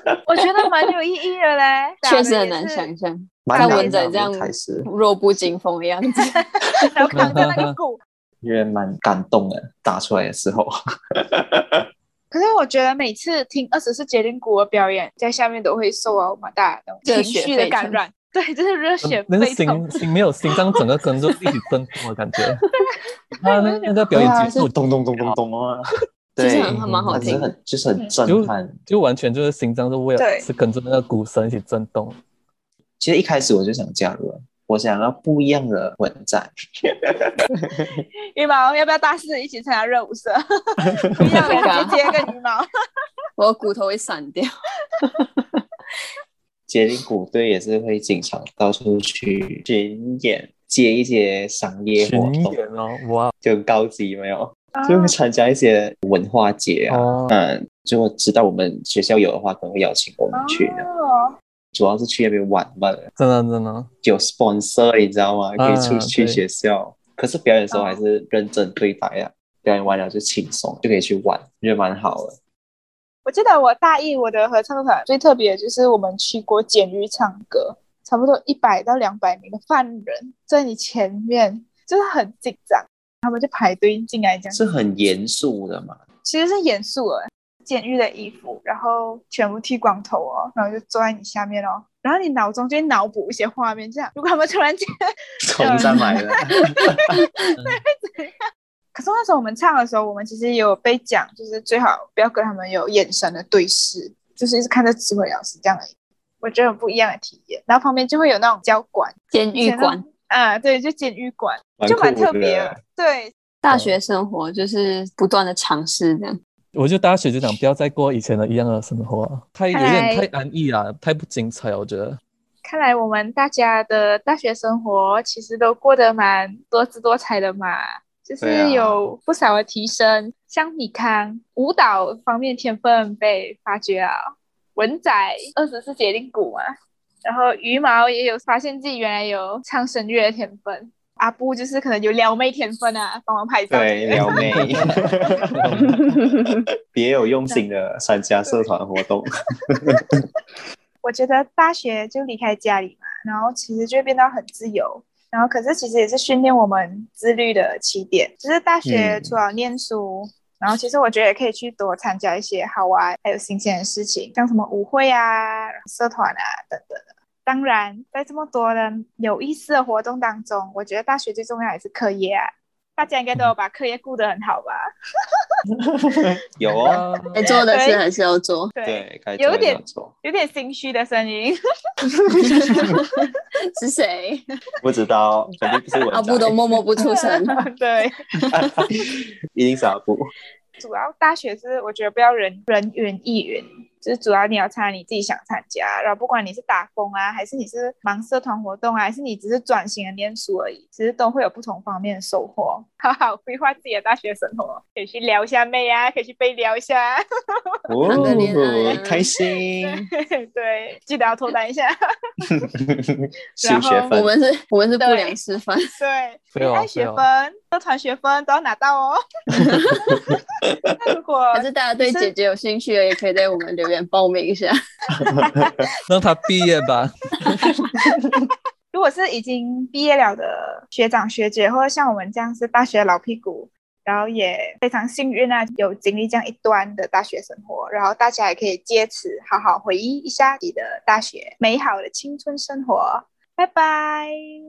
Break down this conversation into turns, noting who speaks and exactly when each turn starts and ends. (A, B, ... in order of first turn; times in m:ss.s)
0:00.3-0:02.9 A
0:02.0-0:07.3 B
0:03.4-0:04.9 C
0:03.5-0:04.0 A
0:06.2-0:08.0 A
0:07.1-0:07.7 D
0:08.4-0:11.8 C
0:12.3-0:19.9 A
0:17.0-0:18.0 B
0:19.0-0:22.6 D
0:22.8-0:23.9 A
0:23.4-0:25.4 D
0:24.1-0:28.7 C
0:24.2-0:24.7 B
0:26.4-0:27.5 B
0:26.7-0:27.4 D
0:28.3-0:32.2 D
0:30.2-0:30.4 A
0:33.0-0:38.0 C
0:38.3-0:42.6 A
0:41.2-0:41.8 C
0:41.2-0:42.0 B
0:43.4-0:44.5 B
0:45.0-0:45.6 B
0:46.7-0:52.6 C
0:52.0-0:53.3 D
0:53.4-1:00.8 C
0:54.8-0:55.1 A
0:56.9-0:57.3 D
1:00.3-1:01.3 A
1:01.7-1:03.1 C
1:03.2-1:03.9 D
1:04.0-1:12.4 C
1:05.6-1:06.4 D
1:07.7-1:08.0 A
1:13.2-1:24.6 A
1:24.5-1:26.0 C
1:26.2-1:34.8 A
1:35.4-1:37.0 C
1:35.6-1:38.3 A
1:37.1-1:37.4 B
1:38.9-1:45.9 A
1:46.4-1:53.3 A
1:49.3-1:50.0 B
1:51.8-1:52.8 C
1:53.6-1:56.4 B
1:53.7-1:54.0 D
1:56.7-2:02.2 D
1:59.7-2:00.3 A
2:02.6-2:14.2 A
2:08.4-2:09.0 C
2:14.8-2:16.7 A
2:17.2-2:24.6 A
2:23.7-2:30.1 C
2:24.1-2:25.9 D
2:31.0-2:54.8 A
2:38.8-2:39.4 C
2:55.9-2:57.0 C
2:56.8-2:57.5 D
2:57.4-2:58.7 B
2:57.5-2:58.0 A
2:58.8-3:01.6 A
2:58.8-3:00.1 C
3:02.3-3:02.6 C
3:02.4-3:03.1 B
3:02.5-3:03.3 A
3:03.6-3:04.4 B
3:04.8-3:06.6 C
3:06.1-3:07.6 B
3:07.0-3:08.2 A
3:08.4-3:08.7 B
3:08.5-3:10.3 C
3:10.8-3:27.2 A
3:27.9-3:30.0 C
3:28.1-3:29.3 B
3:28.1-3:28.5 D
3:29.8-3:32.6 A
3:32.6-3:34.3 C
3:33.6-3:34.1 A
3:34.1-3:35.9 B
3:35.0-3:35.4 A
3:36.0-3:39.6 A
3:36.6-3:37.2 D
3:40.1-3:40.9 C
3:41.0-3:42.3 A
3:41.5-3:44.8 B
3:45.2-3:45.7 C
3:45.4-3:45.9 A
3:46.1-3:47.8 D
3:48.0-3:48.4 C
3:48.4-4:04.4 A